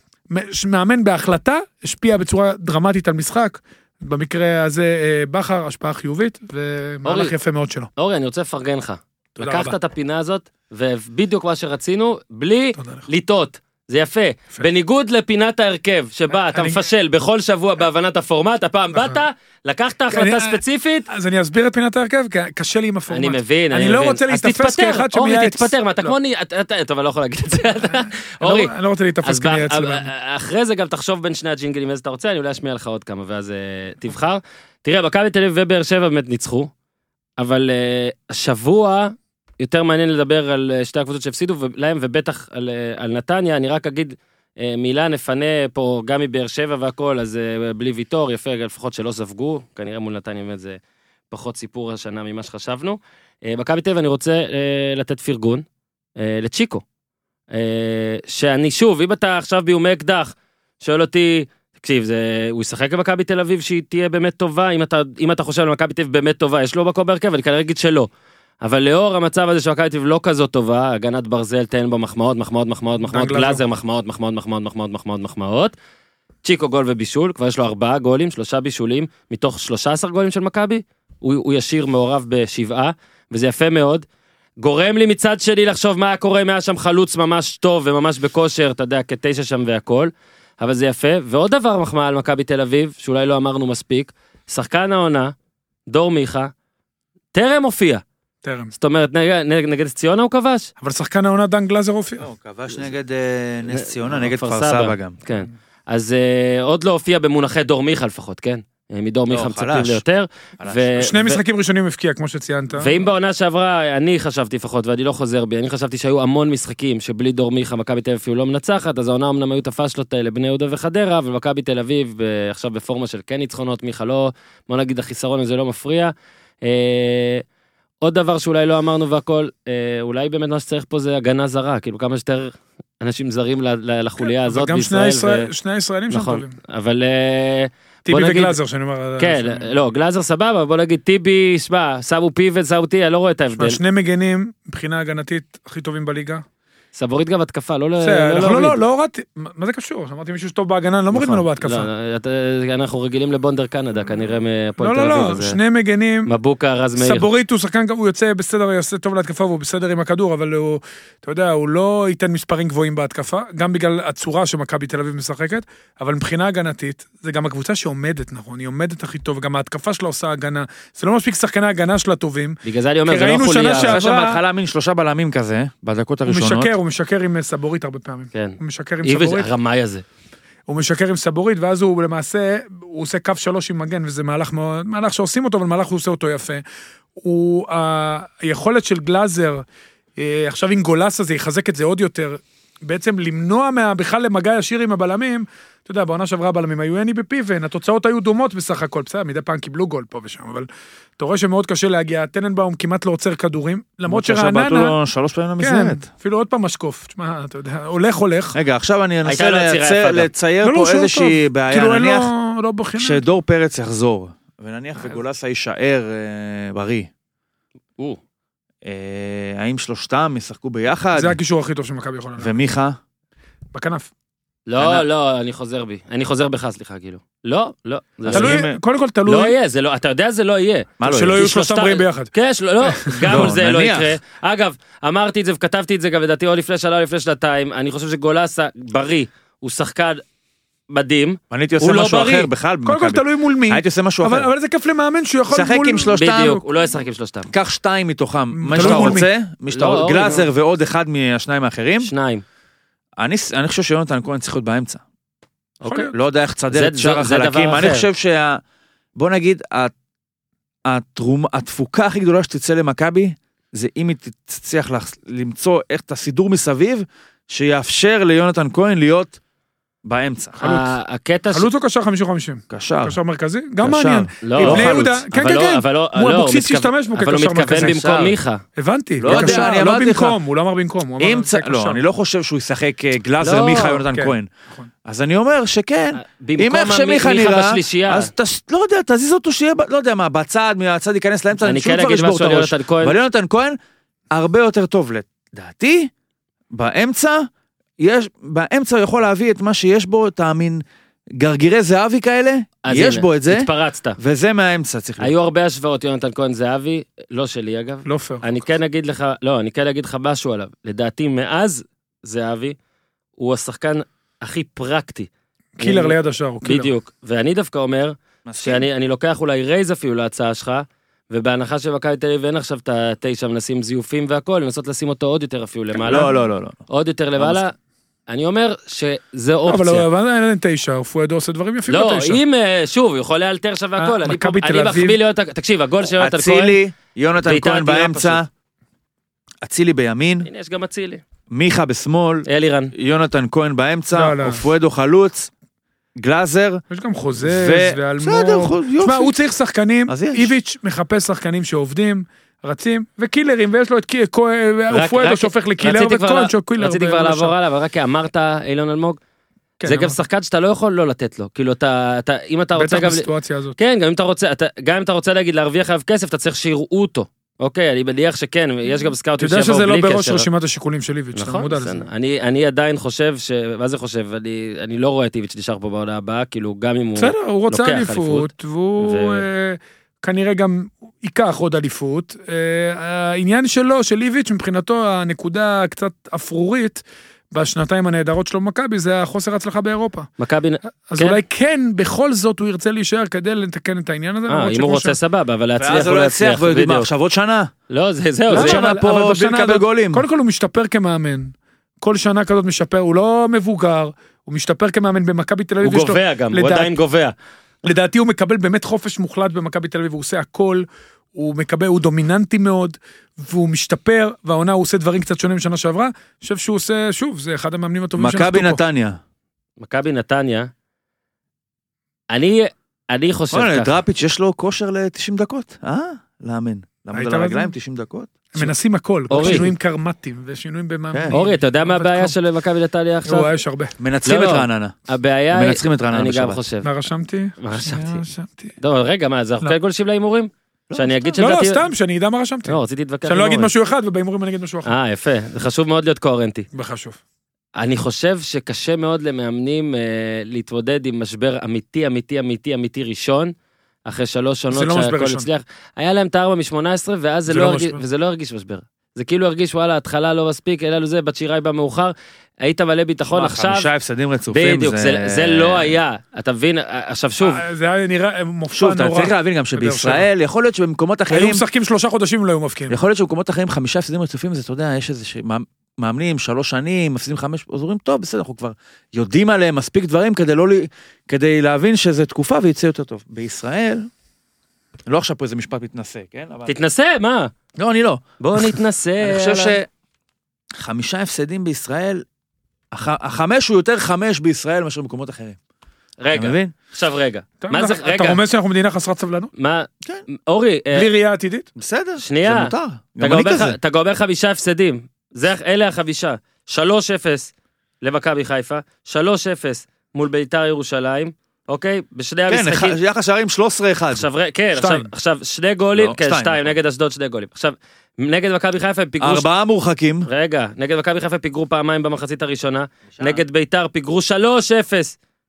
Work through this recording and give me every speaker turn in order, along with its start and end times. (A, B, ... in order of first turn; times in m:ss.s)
0:00.3-0:07.9 A
0:07.0-0:07.3 B
0:08.0-0:21.1 B
0:09.4-0:09.8 A
0:12.8-0:13.1 A
0:16.4-0:16.9 A
0:18.9-0:19.2 A
0:20.1-0:26.2 A
0:23.1-0:28.7 B
0:28.4-0:30.1 A
0:29.2-0:36.7 B
0:37.4-0:50.8 B
0:51.3-0:55.6 B
0:56.2-0:56.8 B
0:57.5-1:08.1 B
1:08.6-1:15.7 B
1:13.1-1:13.6 A
1:16.4-1:24.0 B
1:24.6-1:35.3 B
1:35.9-1:36.5 B
1:37.3-1:38.0 B
1:38.4-1:38.7 A
1:38.8-1:40.7 B
1:40.8-1:42.3 A
1:42.2-1:45.2 C
1:43.7-1:51.4 B
1:49.3-1:50.0 C
1:50.6-1:51.0 C
1:51.0-1:53.0 A
1:52.8-2:07.4 B
2:08.0-2:15.5 B
2:14.2-2:16.6 A
2:16.1-2:18.6 B
2:18.1-2:19.7 A
2:19.2-2:23.8 B
2:23.6-2:26.4 A
2:27.0-2:28.8 B
2:28.0-2:31.9 A
2:31.1-2:35.6 B
2:34.8-2:36.3 A
2:36.3-2:37.3 B
2:37.0-2:54.4 A
2:52.6-2:54.0 B
2:53.6-2:56.7 C
2:56.3-2:59.5 A
2:58.3-3:00.0 B
3:00.7-3:06.6 A
3:07.2-3:09.6 A
3:10.2-3:20.7 A
3:21.2-3:25.0 A
3:24.1-3:26.0 C
3:25.6-3:28.6 A
3:28.5-3:32.3 C
3:29.2-3:30.3 B
3:30.6-3:33.2 A
3:33.0-3:37.1 C
3:38.8-3:41.4 C
3:41.1-3:42.6 A
3:42.4-3:43.0 C
3:43.7-3:44.1 A
3:44.7-3:48.6 B
3:44.8-3:45.0 C
3:48.3-3:48.8 C
3:48.3-3:49.6 A
3:49.3-4:00.2 B
3:51.0-3:51.5 C
3:51.0-3:52.3 A
3:52.8-3:53.5 A
3:53.3-3:54.2 C
4:00.9-4:02.5 B
4:01.5-4:04.5 C
4:02.8-4:06.6 A
4:05.5-4:06.6 C
4:06.1-4:07.5 B
4:07.5-4:12.1 C
4:08.5-4:09.3 A
4:08.8-4:10.5 B
4:12.0-4:12.4 B
4:13.2-4:15.0 C
4:15.8-4:16.1 B
4:15.8-4:16.1 A
4:16.1-4:18.6 C
4:16.7-4:18.1 B
4:19.2-4:19.9 C
4:20.9-4:29.4 C
4:30.0-4:30.6 C
4:30.6-4:31.0 A
4:30.6-4:31.7 B
4:31.5-4:38.0 A
4:32.7-4:33.2 C
4:33.8-4:35.2 C
4:34.4-4:38.6 B
4:37.7-4:38.4 C
4:38.8-4:42.0 A
4:39.2-4:40.4 C
4:39.3-4:39.7 B
4:41.2-4:44.5 C
4:43.4-4:44.0 B
4:43.6-4:44.9 A
4:45.0-4:53.8 C
4:46.2-4:48.3 B
4:51.6-4:53.2 B
4:54.3-4:56.1 C
4:56.7-5:00.8 C
5:01.4-5:05.3 C
5:02.8-5:04.2 B
5:05.2-5:12.8 B
5:08.1-5:08.6 A
5:13.4-5:26.3 B
5:15.8-5:16.9 A
5:18.5-5:18.8 C
5:26.1-5:26.8 C
5:26.9-5:27.7 B
5:27.4-5:27.6 C
5:28.3-5:30.1 B
5:29.7-5:32.4 A
5:31.9-5:36.8 B
5:34.0-5:35.2 A
5:36.0-5:38.5 C
5:37.4-5:38.4 B
5:39.6-5:40.5 C
5:40.4-5:41.2 B
5:41.5-5:45.5 C
5:42.5-5:42.9 B
5:44.1-5:44.6 A
5:46.2-5:46.8 C
5:46.9-5:57.5 A
5:47.4-5:49.3 C
5:50.1-5:50.5 C
5:54.9-5:59.2 B
5:59.8-6:00.2 A
5:59.8-6:10.5 B
6:02.8-6:03.8 A
6:09.4-6:12.1 A
6:11.4-6:19.5 B
6:17.2-6:30.3 A
6:30.4-6:31.4 B
6:31.1-6:35.2 A
6:34.5-6:37.1 B
6:35.8-6:37.7 C
6:37.9-6:38.8 B
6:38.5-6:40.2 C
6:38.5-6:46.9 A
6:45.8-6:47.3 B
6:47.8-6:58.8 A
6:58.2-6:59.2 C
6:59.8-7:00.7 B
7:02.3-7:04.0 B
7:03.5-7:08.7 C
7:07.1-7:07.7 A
7:08.5-7:12.4 A
7:09.3-7:09.7 B
7:09.4-7:09.7 C
7:11.3-7:13.5 B
7:13.3-7:14.0 A
7:14.0-7:15.0 C
7:14.2-7:16.9 B
7:15.5-7:16.6 C
7:16.8-7:18.8 A
7:17.6-7:18.2 B
7:18.8-7:21.8 B
7:20.9-7:21.4 C
7:21.4-7:24.9 A
7:22.7-7:23.7 B
7:24.8-7:26.7 B
7:26.7-7:27.2 A
7:27.8-7:33.5 B
7:34.1-7:43.9 B
7:34.7-7:35.5 A
7:37.5-7:38.0 A
7:43.3-7:46.0 C
7:44.5-7:47.6 B
7:47.4-7:50.3 A
7:48.7-7:51.6 C
7:51.3-7:53.0 A
7:52.9-8:04.1 C
8:05.1-8:06.8 C
8:06.7-8:07.5 B
8:07.8-8:09.9 C
8:08.4-8:09.8 B
8:10.8-8:12.2 C
8:12.9-8:15.6 C
8:16.2-8:18.4 B
8:16.3-8:16.7 C
8:17.6-8:19.5 A
8:19.6-8:21.1 B
8:20.9-8:21.7 A
8:21.8-8:23.8 C
8:22.2-8:33.0 B
8:32.5-8:34.3 C
8:34.1-8:39.5 B
8:34.8-8:35.1 A
8:35.9-8:36.8 C
8:39.2-8:40.3 C
8:40.2-8:45.2 B
8:43.1-8:43.4 C